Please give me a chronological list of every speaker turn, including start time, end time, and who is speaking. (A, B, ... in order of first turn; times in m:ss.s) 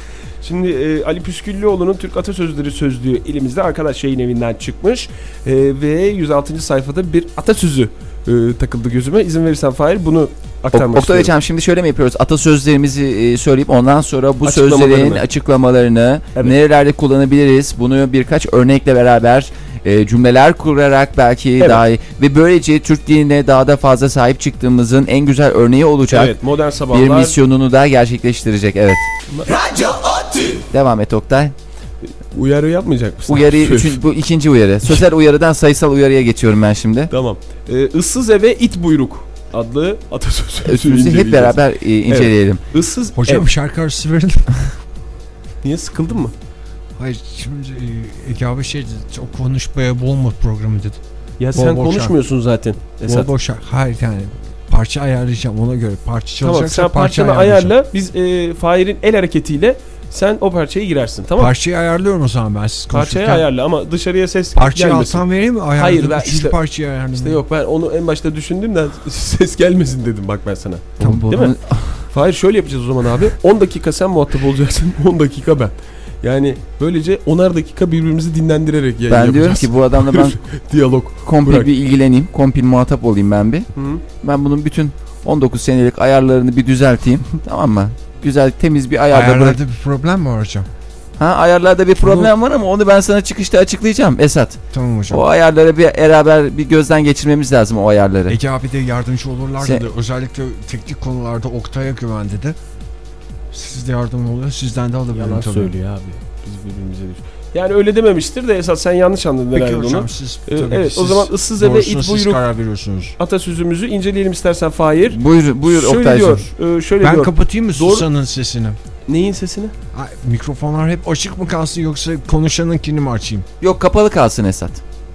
0:00.4-0:11.3 A
0:10.7-0:26.4 B
0:14.4-0:15.2 A
0:26.1-0:27.4 A
0:26.9-0:29.0 B
0:29.3-0:29.9 A
0:30.7-0:31.5 B
0:32.3-0:34.0 A
0:33.3-0:37.1 B
0:37.1-0:43.5 A
0:40.6-0:42.6 B
0:43.2-0:44.5 C
0:45.6-0:46.3 A
0:47.0-0:51.0 C
0:51.4-0:53.3 A
0:51.6-0:52.1 C
0:53.1-0:57.6 C
0:56.4-1:01.5 A
1:01.4-1:03.4 C
1:02.9-1:06.6 A
1:04.6-1:07.4 C
1:07.1-1:21.7 A
1:11.0-1:12.0 B
1:19.1-1:20.4 B
1:21.2-1:23.7 B
1:23.7-1:24.0 A
1:24.2-1:29.6 B
1:29.1-1:30.7 C
1:31.2-1:38.4 B
1:34.7-1:35.2 C
1:38.3-1:42.6 C
1:39.6-1:39.8 B
1:43.5-1:45.7 C
1:45.1-1:52.4 A
1:49.5-1:53.1 C
1:53.2-1:58.1 A
1:55.1-1:56.4 B
1:57.0-1:58.8 C
1:59.1-1:59.7 A
1:59.9-2:03.4 C
2:03.6-2:04.8 B